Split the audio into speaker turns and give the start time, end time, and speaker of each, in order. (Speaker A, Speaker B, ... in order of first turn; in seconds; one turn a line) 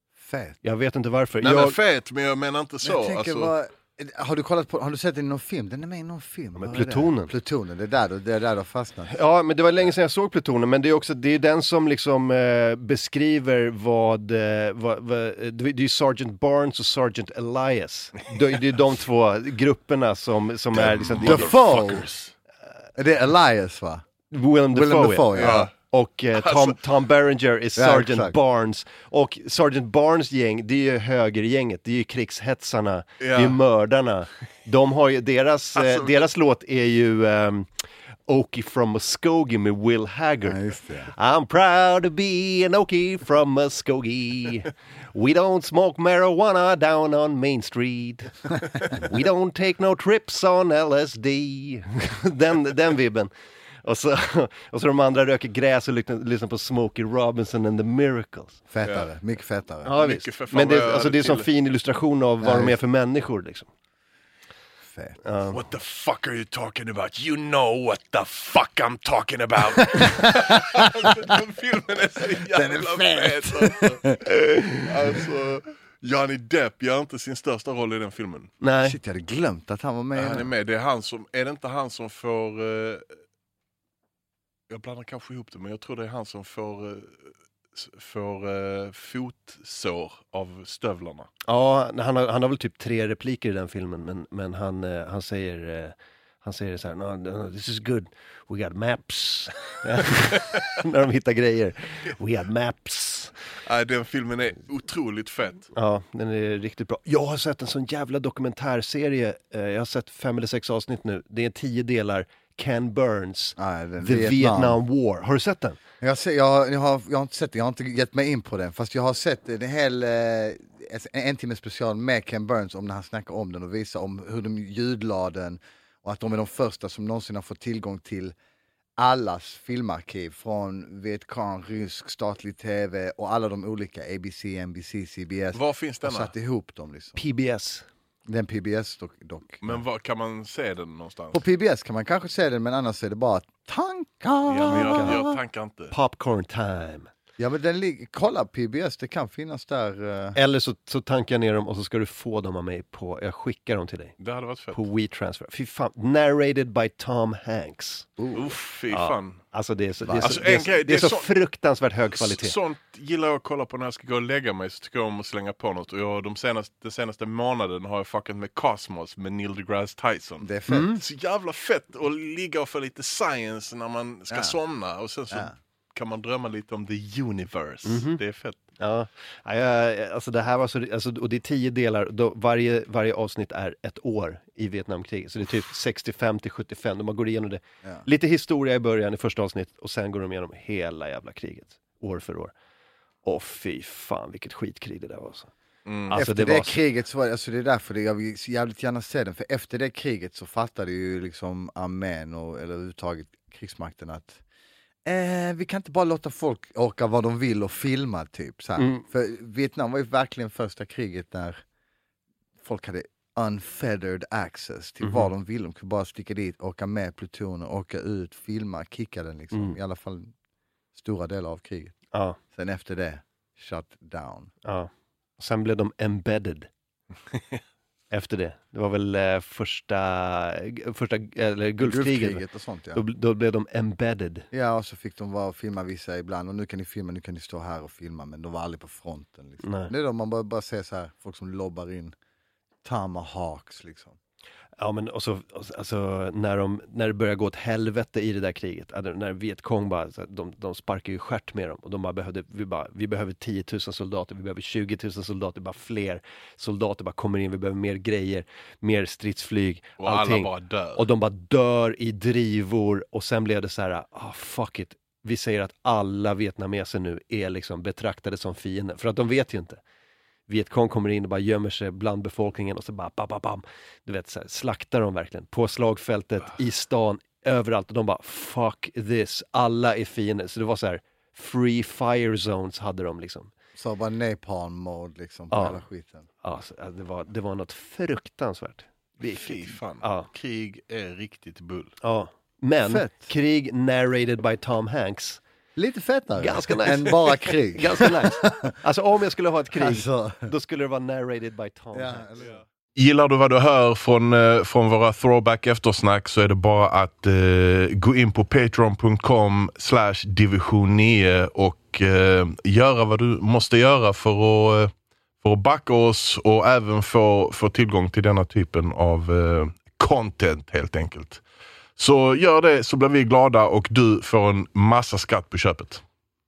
Speaker A: 0.2-0.6
Speaker B: 0.6-1.8
Speaker C: 1.4-3.5
Speaker A: 2.8-9.1
Speaker B: 6.5-7.3
Speaker B: 9.1-21.6
Speaker C: 20.7-22.3
Speaker A: 21.0-22.1
Speaker A: 22.9-24.1
Speaker B: 24.3-37.7
Speaker A: 24.7-25.7
Speaker C: 25.3-25.7
Speaker C: 26.3-26.8
Speaker A: 27.8-28.4
Speaker C: 33.2-33.6
Speaker C: 35.8-36.2
Speaker B: 38.3-53.3
Speaker A: 40.5-41.1
Speaker B: 53.8-58.6
Speaker A: 58.7-60.0
Speaker B: 59.8-63.7
Speaker C: 60.0-61.5
Speaker A: 62.4-62.8
Speaker A: 64.8-65.2
Speaker B: 65.2-65.6
Speaker C: 65.5-78.5
Speaker A: 72.5-74.2
Speaker B: 78.6-79.0
Speaker A: 78.8-80.5
Speaker C: 80.1-83.1
Speaker C: 84.7-91.3
Speaker B: 91.5-103.3
Speaker C: 103.6-105.7
Speaker B: 105.8-115.8
Speaker A: 113.6-114.8
Speaker A: 116.0-128.4
Speaker A: 129.0-137.2
Speaker C: 135.5-136.3
Speaker B: 137.2-137.8
Speaker A: 138.3-139.8
Speaker C: 139.6-141.4
Speaker A: 141.3-145.3
Speaker C: 144.5-145.9
Speaker B: 144.7-145.3
Speaker B: 145.9-147.1
Speaker A: 147.4-150.4
Speaker B: 150.3-154.2
Speaker C: 154.2-154.8
Speaker B: 154.7-158.2
Speaker A: 158.2-158.6
Speaker C: 158.3-159.4
Speaker B: 158.9-162.6
Speaker A: 160.0-160.4
Speaker C: 160.2-161.3
Speaker C: 162.1-178.6
Speaker A: 170.4-170.9
Speaker B: 170.7-171.0
Speaker A: 174.3-174.6
Speaker B: 177.8-178.2
Speaker B: 178.8-192.5
Speaker B: 193.2-195.5
Speaker C: 195.9-196.2
Speaker B: 196.1-196.8
Speaker A: 196.1-204.4
Speaker A: 205.1-211.6
Speaker B: 208.8-209.0
Speaker A: 212.6-220.3
Speaker B: 215.0-215.3
Speaker B: 219.5-219.8
Speaker A: 220.9-222.0
Speaker B: 222.1-222.4
Speaker A: 222.5-224.5
Speaker B: 224.6-226.7
Speaker B: 228.1-234.5
Speaker A: 231.8-233.0
Speaker A: 234.5-242.1
Speaker B: 239.6-239.9
Speaker A: 242.8-244.2
Speaker B: 244.8-269.8
Speaker C: 260.0-261.1
Speaker B: 270.5-283.5
Speaker A: 283.8-286.3
Speaker B: 285.5-285.9
Speaker B: 286.4-290.3
Speaker C: 289.2-292.0
Speaker B: 292.0-295.4
Speaker A: 292.9-293.3
Speaker A: 295.8-298.7
Speaker B: 296.4-302.3
Speaker A: 299.7-300.5
Speaker A: 301.9-302.6
Speaker C: 302.4-321.4
Speaker C: 322.0-326.0